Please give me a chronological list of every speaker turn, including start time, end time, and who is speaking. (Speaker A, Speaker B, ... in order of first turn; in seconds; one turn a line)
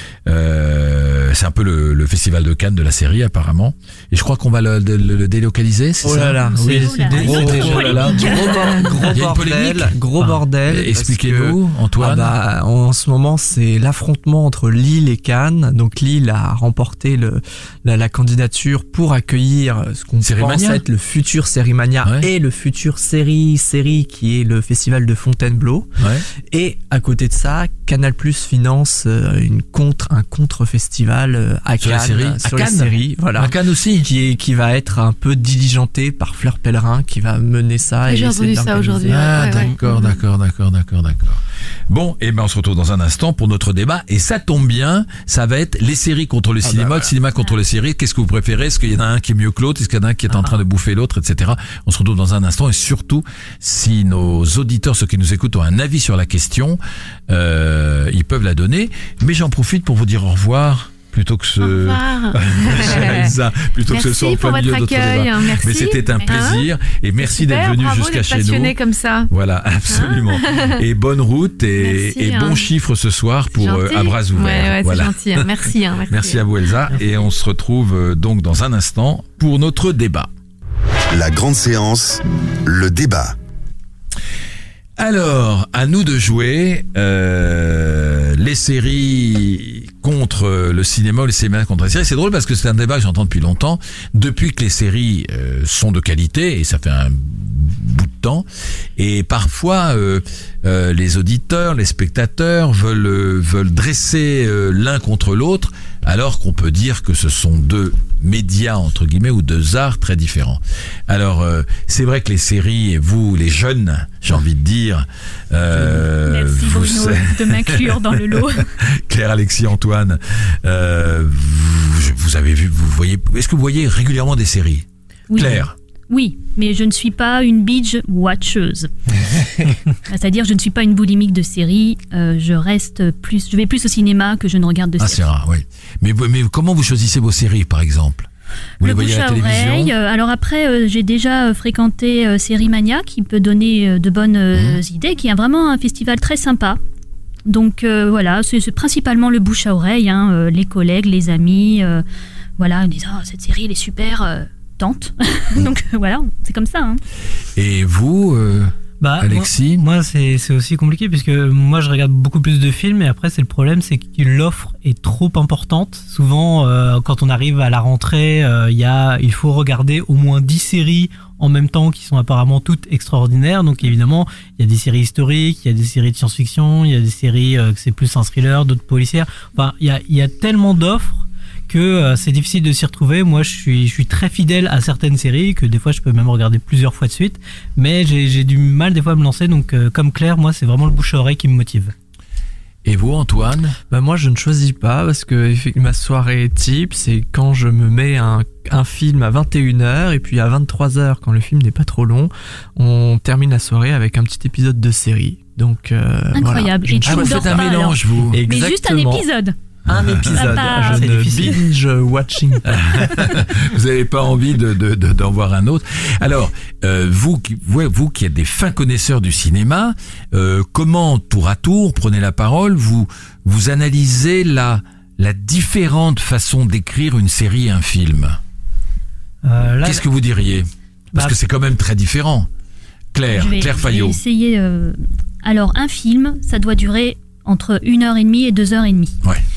Speaker A: 0.2-6.4
Speaker B: 6.0-25.9
Speaker C: 6.1-8.5
Speaker D: 6.7-9.1
Speaker A: 7.1-9.9
Speaker A: 10.6-12.3
Speaker A: 20.2-20.8
Speaker A: 26.0-26.2
Speaker B: 26.5-39.7
Speaker A: 31.8-34.1
Speaker E: 38.0-40.1
Speaker A: 39.1-68.7
Speaker B: 46.6-47.1
Speaker E: 61.6-63.3
Speaker E: 63.9-66.7
Speaker E: 67.2-69.3
Speaker A: 69.3-75.5
Speaker E: 69.9-70.8
Speaker E: 71.8-72.7
Speaker E: 73.5-76.4
Speaker A: 76.1-80.3
Speaker F: 81.1-83.3
Speaker A: 85.0-125.7
Speaker D: 116.2-118.7
Speaker D: 125.3-128.9
Speaker D: 130.1-135.3
Speaker A: 135.0-138.3
Speaker A: 138.8-139.9
Speaker D: 138.8-146.8
Speaker A: 144.5-144.8
Speaker D: 147.4-152.0
Speaker D: 152.6-157.0
Speaker A: 157.6-159.8
Speaker C: 159.0-191.9
Speaker A: 192.8-193.8
Speaker B: 193.9-209.3
Speaker D: 206.3-209.6
Speaker A: 207.0-208.4
Speaker A: 209.9-210.4
Speaker B: 209.9-213.1
Speaker D: 210.3-211.1
Speaker C: 210.5-211.6
Speaker A: 212.7-228.4
Speaker C: 229.4-230.0
Speaker A: 229.8-232.5
Speaker A: 233.1-234.2
Speaker D: 233.3-239.2